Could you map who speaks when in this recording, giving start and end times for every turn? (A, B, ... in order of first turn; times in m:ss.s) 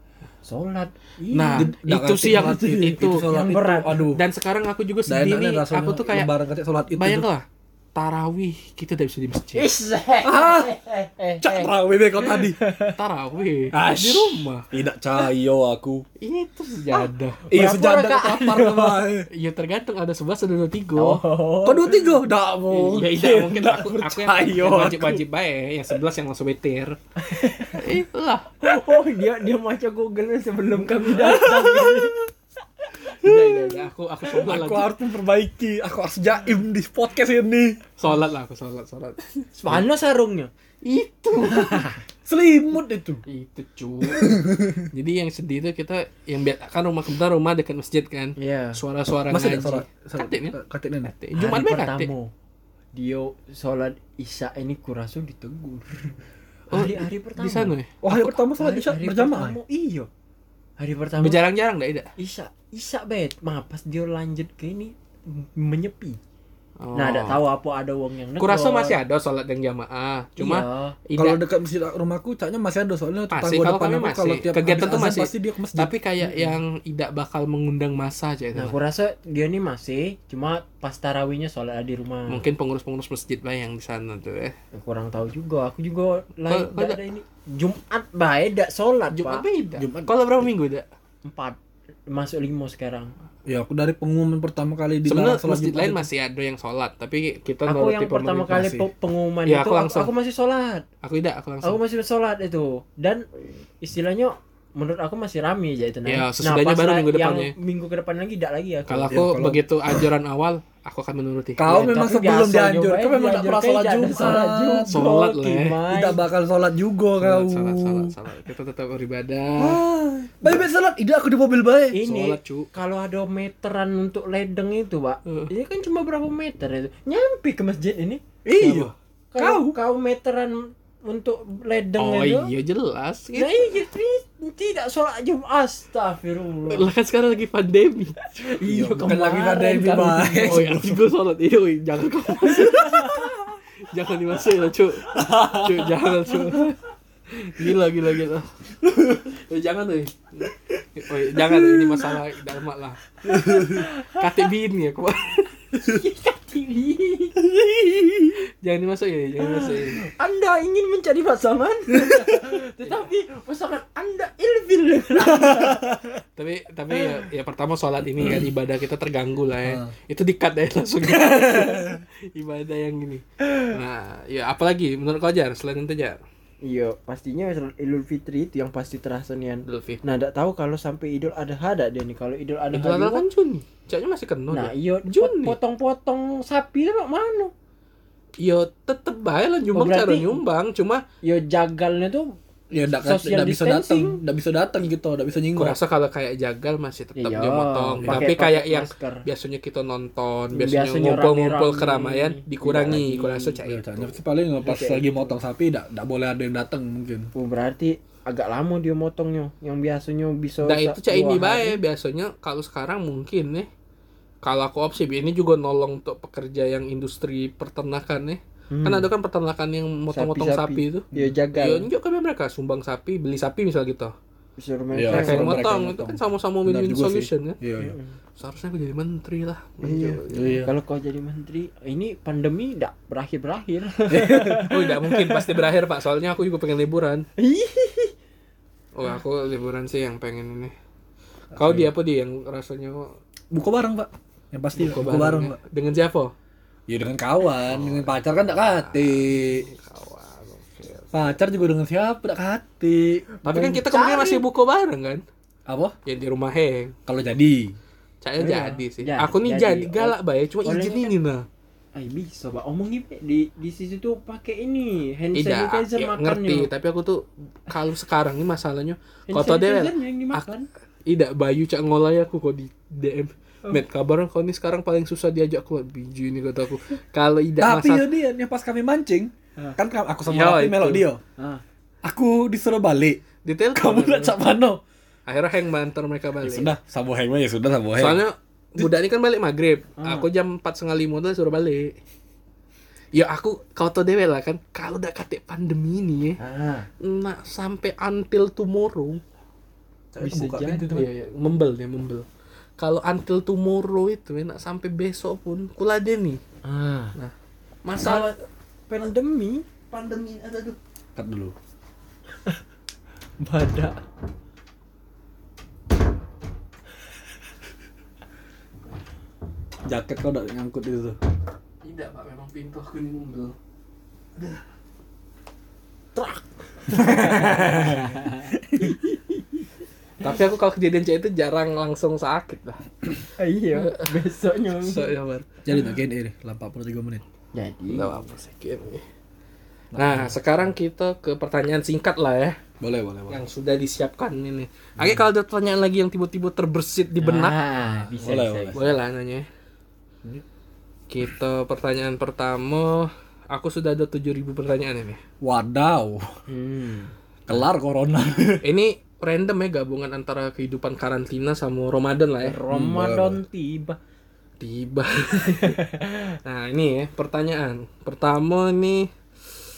0:00.4-0:01.7 A
0:01.3-0:03.3 B
0:01.4-0:04.2 C
0:02.3-0:04.1 A
0:04.1-0:06.3 B
0:05.1-0:07.3 C
0:06.9-0:09.7 B
0:09.6-0:13.0 A
0:10.2-0:10.7 C
0:11.4-0:12.6 C
0:12.9-0:14.7 B
0:13.7-0:16.1 C
0:16.2-0:17.4 B
0:16.9-0:19.3 C
0:17.5-0:19.1 A
0:19.3-0:21.2 B
0:21.0-0:22.0 A
0:21.6-0:25.2 C
0:22.7-0:27.0 B
0:27.2-0:27.8 A
0:27.7-0:28.5 B
0:28.6-0:32.2 A
0:31.1-0:32.2 C
0:33.1-0:34.9 B
0:34.3-0:37.8 C
0:38.0-0:39.4 B
0:39.6-0:40.5 A
0:40.8-0:41.9 B
0:41.5-0:42.0 A
0:41.6-0:43.2 C
0:43.3-0:50.6 B
0:44.0-0:44.9 C
0:48.4-0:48.8 A
0:49.3-0:51.1 C
0:51.1-0:52.1 B
0:51.4-0:52.3 A
0:52.9-0:56.2 A
0:56.7-0:58.2 B
0:56.7-1:00.1 A
0:58.0-0:59.6 C
1:00.8-1:01.4 A
1:01.2-1:02.1 B
1:02.2-1:06.2 A
1:06.8-1:07.4 B
1:07.0-1:09.0 A
1:08.4-1:11.4 B
1:10.4-1:11.0 A
1:11.2-1:15.9 C
1:13.3-1:18.8 B
1:16.2-1:16.6 A
1:18.6-1:22.4 A
1:22.3-1:24.6 B
1:24.7-1:29.5 A
1:26.5-1:27.0 B
1:29.1-1:30.9 B
1:29.8-1:30.5 C
1:31.2-1:33.1 A
1:33.5-1:36.1 C
1:35.1-1:38.7 B
1:37.7-1:40.9 A
1:38.5-1:38.8 C
1:39.5-1:40.1 B
1:41.0-1:41.8 B
1:41.6-1:43.3 A
1:43.8-1:49.2 A
1:46.1-1:47.5 B
1:48.9-1:51.9 B
1:49.1-1:49.6 C
1:51.6-1:55.0 C
1:51.7-1:56.2 A
1:54.9-1:55.8 B
1:55.9-1:58.1 C
1:57.2-1:59.8 B
1:59.6-2:02.0 C
2:01.9-2:08.8 A
2:02.0-2:02.7 B
2:05.3-2:05.5 B
2:08.4-2:09.8 C
2:08.6-2:08.9 B
2:09.3-2:12.5 A
2:12.0-2:13.5 B
2:13.3-2:16.9 A
2:16.7-2:18.2 B
2:18.4-2:20.7 A
2:18.6-2:21.0 C
2:20.5-2:26.8 B
2:22.6-2:23.3 A
2:25.1-2:26.0 C
2:27.3-2:28.5 B
2:29.2-2:35.5 B
2:33.3-2:33.8 C
2:33.3-2:34.2 A
2:35.7-2:37.4 A
2:37.6-2:38.0 C
2:38.6-2:40.1 B
2:39.4-2:46.0 A
2:45.2-2:46.1 C
2:46.4-2:56.2 B
2:49.6-2:49.9 C
2:51.2-2:51.8 C
2:56.6-3:03.3 A
2:59.6-3:00.0 B
3:02.7-3:05.6 B
3:04.5-3:07.5 A
3:08.4-3:11.0 B
3:09.8-3:10.4 A
3:11.2-3:12.4 A
3:12.7-3:15.8 C
3:13.0-3:14.2 A
3:15.6-3:24.2 B
3:17.2-3:19.3 A
3:20.5-3:23.6 A
3:23.6-3:27.3 C
3:24.6-3:25.3 A
3:27.4-3:31.8 A
3:30.6-3:33.7 B
3:34.4-3:44.1 B
3:38.7-3:39.1 A
3:40.1-3:41.9 A
3:44.6-3:45.7 A
3:44.9-3:47.9 C
3:45.0-3:47.6 B
3:47.8-3:48.2 A
3:48.4-3:50.6 B
3:49.8-3:55.6 A
3:50.3-3:50.7 C
3:54.1-3:54.7 C
3:54.7-3:57.3 B
3:57.4-3:58.1 A
3:58.9-4:00.7 B
4:01.5-4:01.9 C
4:01.6-4:03.1 B
4:03.5-4:05.6 C
4:04.8-4:06.3 B
4:06.9-4:09.7 C
4:07.6-4:11.4 B
4:11.1-4:14.4 C
4:13.4-4:15.2 B
4:13.8-4:14.3 A
4:15.7-4:16.0 C
4:16.1-4:17.0 B
4:17.1-4:17.8 C
4:18.2-4:21.5 B
4:18.4-4:21.1 A
4:22.0-4:26.7 A
4:25.4-4:30.4 B
4:29.3-4:30.7 A
4:31.1-4:38.1 B
4:37.6-4:41.2 C
4:40.2-4:41.1 B
4:41.4-4:41.6 A
4:42.0-4:43.2 C
4:43.4-4:44.4 B
4:43.8-4:44.8 C
4:45.3-4:46.7 B
4:46.4-4:48.2 C
4:48.0-4:52.0 B
4:50.0-4:50.3 A
4:53.1-4:56.4 B
4:56.4-4:56.9 A
4:57.0-4:59.2 B
5:00.1-5:01.1 C
5:00.2-5:01.0 A
5:00.8-5:02.3 B
5:02.8-5:06.4 B
5:06.6-5:07.2 A
5:07.8-5:08.3 B
5:08.0-5:09.7 A
5:09.9-5:11.6 C
5:13.4-5:14.0 A
5:19.9-5:21.2 C
5:21.8-5:23.6 B
5:26.2-5:29.7 A
5:26.9-5:29.0 C
5:30.2-5:32.8 B
5:33.4-5:35.2 A
5:33.7-5:34.2 B
5:34.7-5:35.6 B
5:35.6-5:37.2 C
5:37.5-5:38.3 A
5:37.9-5:39.0 B
5:39.9-5:40.3 C
5:40.0-5:42.6 B
5:42.8-5:43.4 C
5:43.3-5:47.6 B
5:45.0-5:45.2 C
5:47.2-5:48.9 A
5:47.9-5:48.9 C
5:48.7-5:49.5 B
5:51.1-5:55.2 B
5:55.4-5:56.3 C
5:56.5-5:57.2 A
5:57.5-5:58.6 C
5:58.6-6:02.6 B
6:02.4-6:04.0 A
6:02.7-6:03.4 C
6:04.6-6:09.1 B
6:05.4-6:05.9 A